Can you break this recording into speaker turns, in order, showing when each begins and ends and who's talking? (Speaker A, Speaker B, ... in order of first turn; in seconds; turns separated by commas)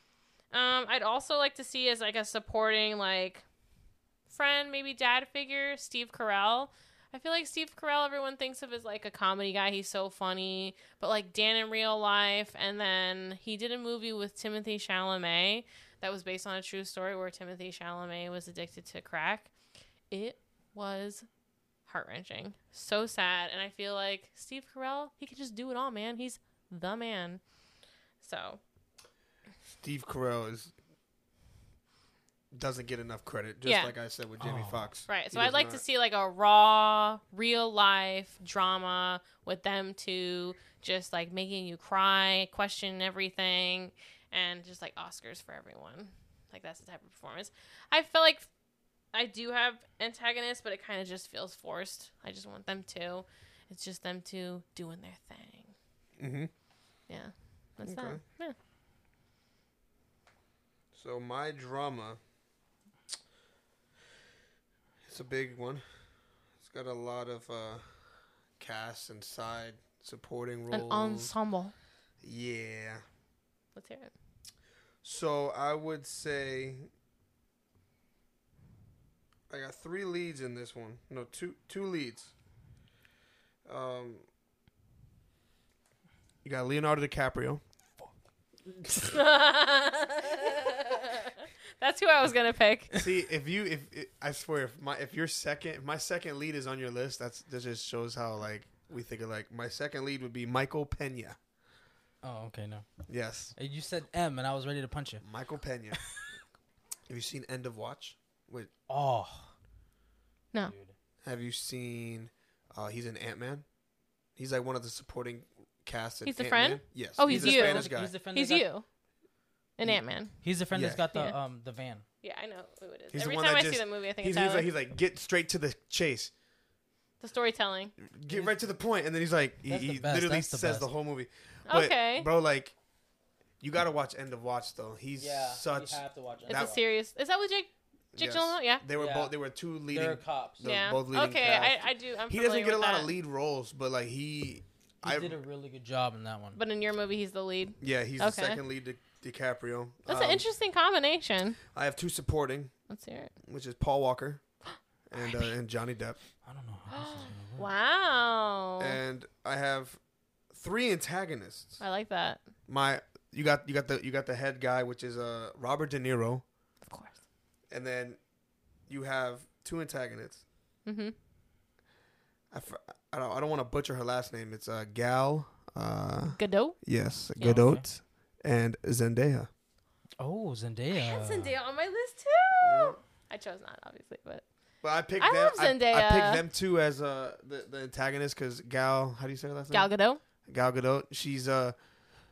Speaker A: 0.5-3.4, Speaker A: 4.3-19.5, Speaker A: 20.1-21.3, Speaker A: 21.9-27.4, Speaker A: 28.2-28.6, Speaker B: 29.7-30.7, Speaker B: 32.5-35.8, Speaker A: 33.6-33.9, Speaker C: 34.4-34.9, Speaker A: 35.1-48.5, Speaker A: 49.1-55.7, Speaker B: 56.2-56.5, Speaker A: 57.1-58.6, Speaker B: 57.8-58.2, Speaker B: 60.9-62.2, Speaker B: 65.1-65.8, Speaker B: 66.6-67.8, Speaker B: 68.6-71.3, Speaker A: 70.7-71.7, Speaker B: 72.2-73.0, Speaker A: 73.8-74.1, Speaker B: 75.0-76.9, Speaker B: 79.5-82.3, Speaker B: 83.7-84.2, Speaker B: 86.4-87.6, Speaker A: 88.9-93.0, Speaker B: 93.0-101.4, Speaker C: 102.2-102.9, Speaker B: 103.1-103.5, Speaker C: 103.5-105.2, Speaker B: 105.2-106.0, Speaker B: 107.1-108.7, Speaker C: 108.9-109.5, Speaker C: 110.6-110.9, Speaker B: 111.2-113.7, Speaker B: 114.4-118.1, Speaker A: 116.2-118.8, Speaker C: 117.3-118.7, Speaker A: 119.8-120.4, Speaker C: 120.4-122.0, Speaker B: 120.7-121.0, Speaker A: 122.2-124.7, Speaker B: 123.1-126.3, Speaker A: 127.2-128.0, Speaker B: 128.0-132.8, Speaker C: 128.3-128.6, Speaker C: 129.7-130.9, Speaker A: 131.7-132.3, Speaker B: 133.6-136.8, Speaker C: 135.2-136.8, Speaker A: 136.5-138.8, Speaker B: 138.2-145.4, Speaker C: 138.9-139.3, Speaker C: 139.9-140.6, Speaker A: 140.6-143.1, Speaker C: 145.0-146.6, Speaker A: 146.6-148.6, Speaker B: 147.8-150.5, Speaker A: 150.1-151.6, Speaker B: 151.7-152.7, Speaker A: 152.9-153.3, Speaker B: 153.4-154.4, Speaker B: 155.1-156.2, Speaker A: 155.2-155.5, Speaker C: 156.4-157.7, Speaker A: 156.9-159.0, Speaker B: 158.8-160.0, Speaker B: 160.5-161.8, Speaker A: 161.8-162.4, Speaker B: 162.7-166.4, Speaker A: 166.9-167.2, Speaker B: 167.7-168.2, Speaker B: 168.9-170.4, Speaker A: 170.9-171.2, Speaker B: 172.5-179.5, Speaker A: 176.4-176.8, Speaker C: 177.4-177.8, Speaker C: 180.2-181.5, Speaker A: 180.9-184.4, Speaker B: 182.6-183.0, Speaker B: 184.8-189.9, Speaker A: 185.2-186.4, Speaker A: 189.7-190.2, Speaker B: 190.5-191.8